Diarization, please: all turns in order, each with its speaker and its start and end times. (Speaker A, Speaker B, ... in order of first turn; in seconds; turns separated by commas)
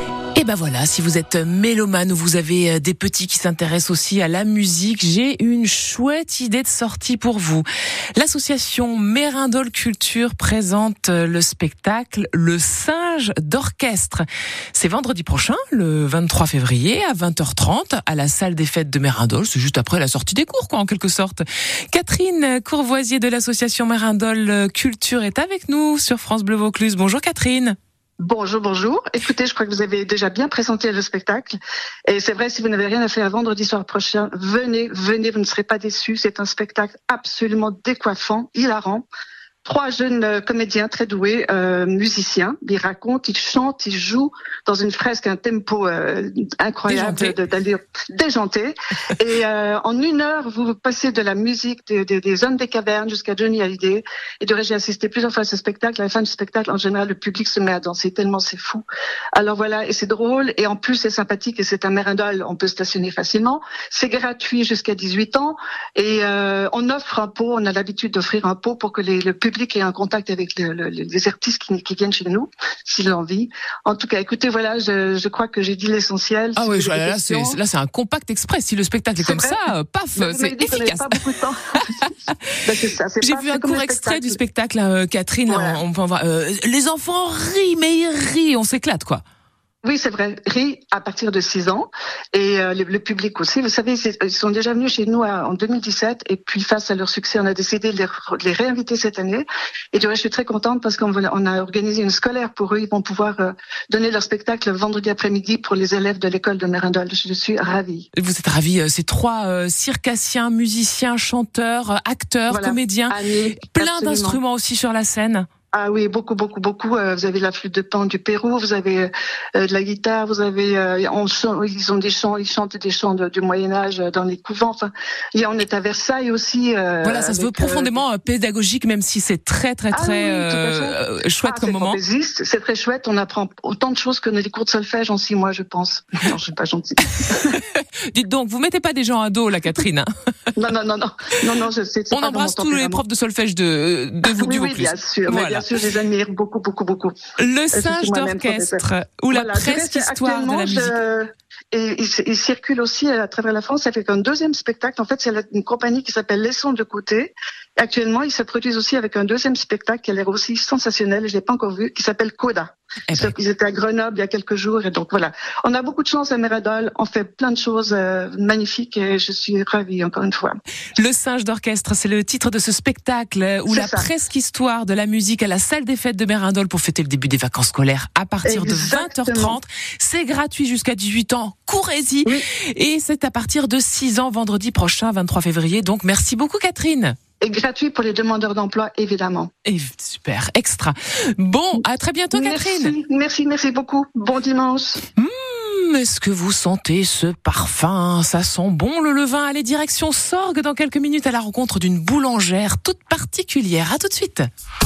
Speaker A: 0.3-27.8, Speaker B: 28.2-39.0, Speaker B: 39.6-77.6, Speaker A: 46.9-47.4, Speaker A: 76.5-81.1, Speaker B: 79.2-79.6, Speaker B: 80.2-82.1, Speaker A: 81.9-82.3, Speaker B: 82.6-84.4, Speaker A: 83.2-89.2, Speaker B: 85.5-85.8, Speaker B: 89.8-108.1, Speaker A: 108.1-113.1, Speaker B: 112.5-114.4, Speaker A: 113.7-115.5, Speaker B: 115.7-128.0, Speaker A: 127.0-132.0, Speaker B: 129.9-137.6, Speaker A: 137.3-140.1, Speaker B: 140.6-143.0, Speaker A: 142.1-145.7, Speaker B: 144.3-147.1, Speaker A: 147.4-151.0, Speaker B: 147.7-170.6, Speaker A: 163.1-163.3, Speaker A: 170.9-187.1, Speaker B: 173.7-174.1, Speaker B: 178.4-179.6, Speaker B: 187.4-189.5, Speaker A: 189.6-192.9, Speaker B: 192.3-195.0, Speaker A: 195.2-204.5